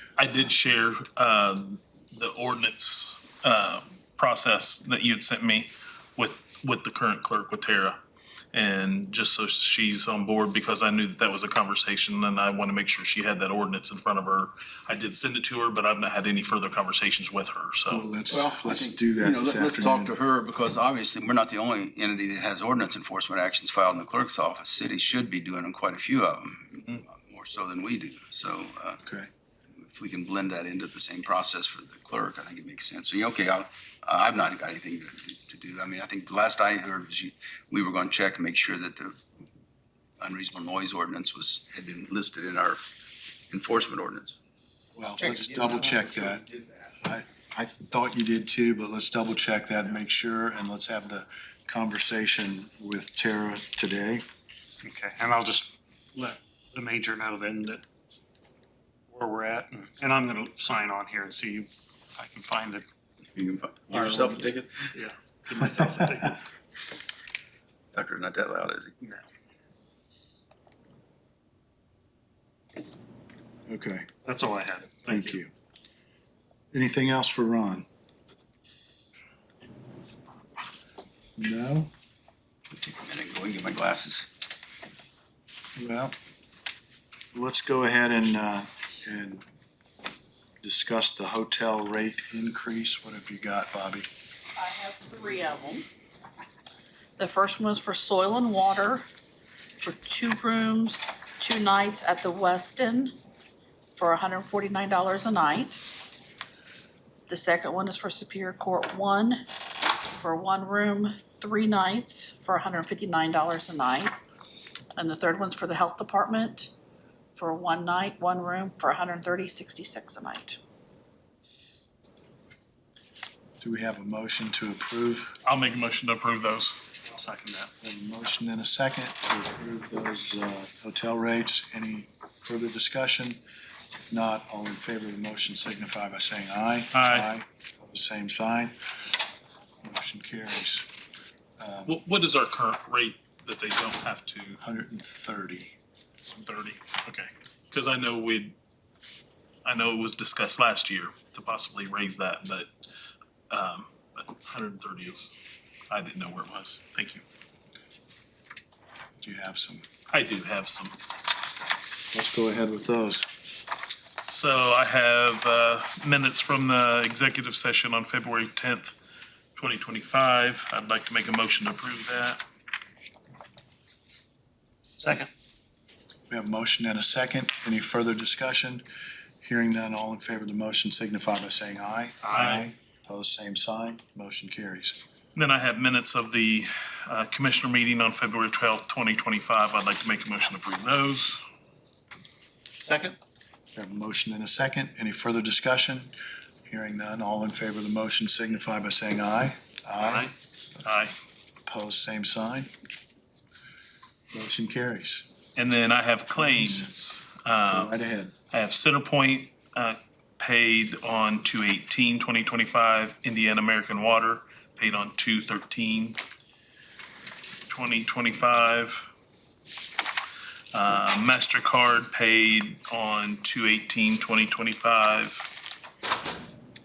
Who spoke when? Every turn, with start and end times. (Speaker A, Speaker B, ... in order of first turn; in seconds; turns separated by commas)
Speaker A: 0.2-8.0, Speaker A: 8.5-18.1, Speaker B: 17.9-20.1, Speaker C: 18.3-29.0, Speaker B: 29.0-29.3, Speaker C: 29.8-39.2, Speaker C: 40.2-42.8, Speaker C: 43.5-44.4, Speaker B: 45.0-46.5, Speaker B: 47.0-54.2, Speaker D: 54.8-57.8, Speaker D: 59.1-62.9, Speaker C: 63.4-64.9, Speaker D: 63.9-66.4, Speaker C: 67.9-69.0, Speaker B: 73.7-74.1, Speaker D: 74.2-75.4, Speaker B: 75.1-75.5, Speaker B: 76.7-77.9, Speaker B: 81.4-81.9, Speaker C: 82.7-84.3, Speaker B: 85.8-86.2, Speaker B: 87.3-89.4, Speaker B: 90.6-94.1, Speaker E: 94.6-95.8, Speaker E: 97.2-99.1, Speaker E: 99.8-103.1, Speaker E: 104.0-105.8, Speaker E: 107.3-109.4, Speaker E: 110.2-114.1, Speaker E: 115.0-116.7, Speaker E: 117.4-120.6, Speaker B: 123.6-125.4, Speaker A: 125.4-126.8, Speaker D: 127.1-127.7, Speaker B: 127.8-133.4, Speaker B: 134.0-138.8, Speaker A: 136.9-137.3, Speaker B: 139.8-140.9, Speaker B: 141.6-142.0, Speaker A: 141.9-144.6, Speaker B: 144.6-145.7, Speaker A: 146.3-148.6, Speaker A: 149.7-152.7, Speaker A: 153.5-155.4, Speaker A: 155.9-157.2, Speaker B: 159.2-159.8, Speaker A: 160.1-161.0, Speaker B: 162.1-163.3, Speaker A: 164.3-169.0, Speaker A: 169.6-172.4, Speaker D: 175.0-175.3, Speaker B: 176.3-178.8, Speaker B: 179.4-185.0, Speaker A: 182.3-182.6, Speaker A: 185.3-191.4, Speaker D: 192.8-193.2, Speaker B: 193.8-196.1, Speaker B: 196.7-200.3, Speaker A: 200.8-201.1, Speaker B: 201.6-202.7, Speaker B: 204.3-205.3, Speaker A: 205.6-207.9, Speaker B: 206.4-206.9, Speaker B: 207.7-208.3, Speaker A: 208.5-216.2, Speaker A: 217.7-219.1, Speaker A: 220.7-225.5